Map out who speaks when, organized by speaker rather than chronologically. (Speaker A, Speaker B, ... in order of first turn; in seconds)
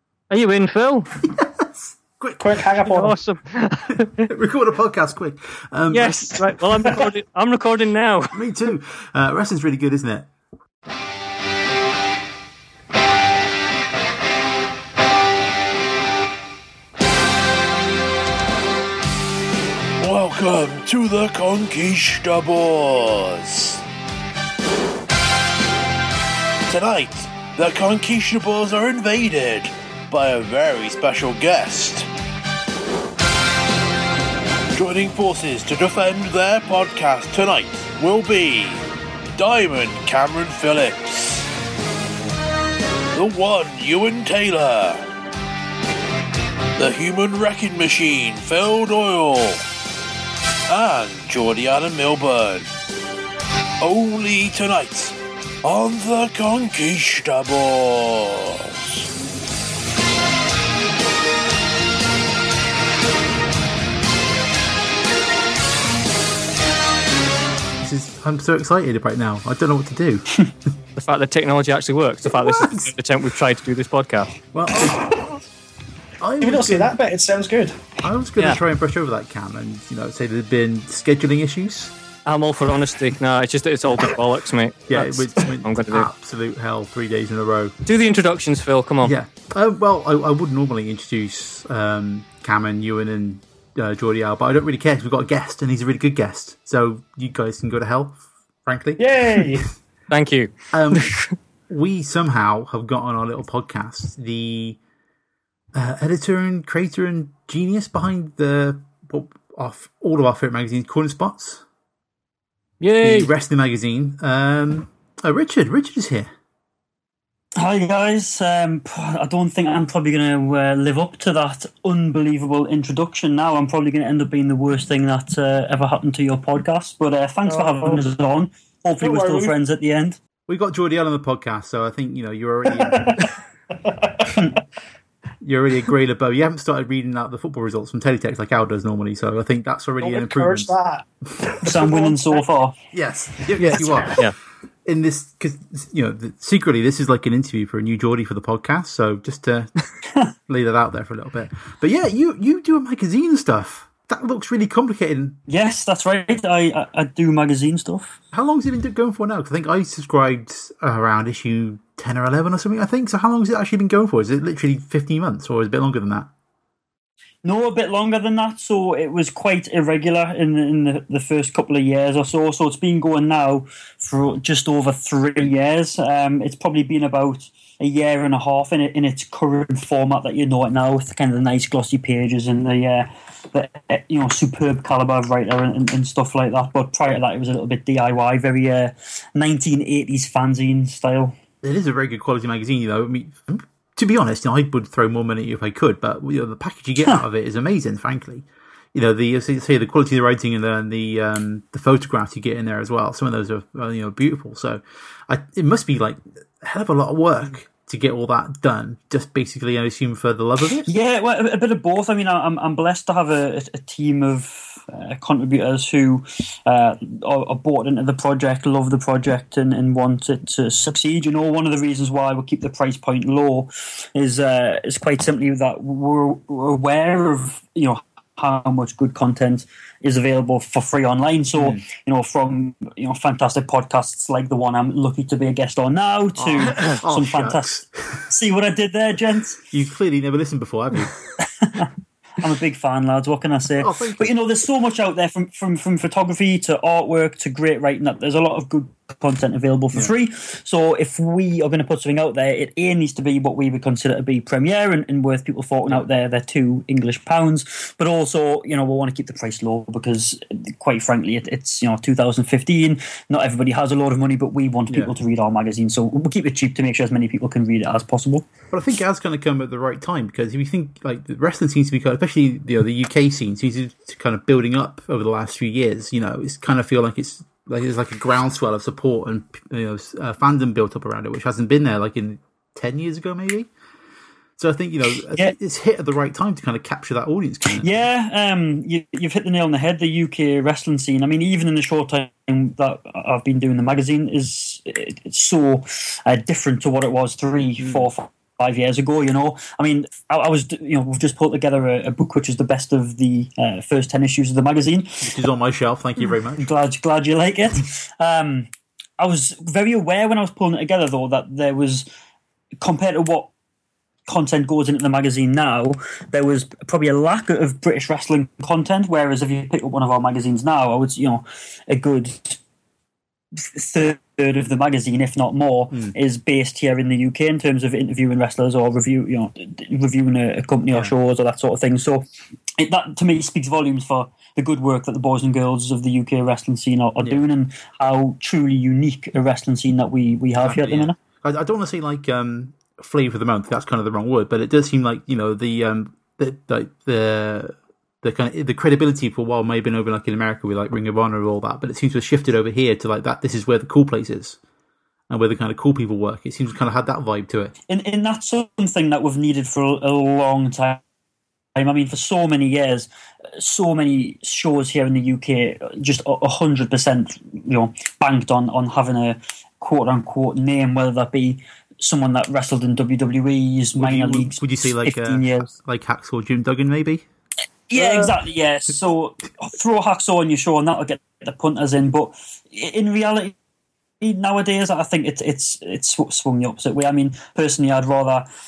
Speaker A: 0.3-1.1, 2.8-4.2, 5.9-8.4, 71.0-74.3, 82.2-86.1, 87.8-89.1, 100.1-101.3, 112.8-113.3
Speaker B: 1.2-2.5, 4.2-6.5, 8.3-10.3, 67.8-70.3, 72.2-72.9, 74.5-75.2, 76.2-76.9, 78.0-81.9, 84.9-87.7, 89.0-99.6, 100.7-101.0, 101.7-104.8, 105.7-111.6, 113.0-116.3, 130.5-133.2, 135.4-140.7, 142.9-144.2, 144.8-149.7, 150.5-155.4, 158.3-166.3, 191.6-210.9, 231.6-231.8, 236.4-238.2, 239.7-241.1, 243.8-244.3, 268.7-283.7, 284.6-287.9, 297.8-298.1, 305.2-306.7, 340.6-354.6, 355.3-357.7, 374.0-377.2
Speaker C: 2.4-3.2, 76.4-77.8, 99.0-99.7, 127.5-128.0, 129.0-129.5, 132.7-133.2, 133.8-134.3, 140.0-141.1, 141.6-142.4
Speaker D: 20.0-23.8, 26.7-32.1, 34.7-41.4, 43.1-45.0, 46.8-49.6, 50.7-52.7, 53.8-59.0
Speaker E: 117.6-130.2, 134.3-134.5, 141.6-142.8, 155.5-158.2, 167.4-191.3, 210.8-239.6, 241.6-241.9, 242.4-268.5, 287.8-305.2, 306.6-312.1, 312.8-313.5, 314.3-322.6, 323.6-332.2, 332.8-341.1, 357.9-361.0, 361.8-375.7, 377.9-383.5, 384.2-388.4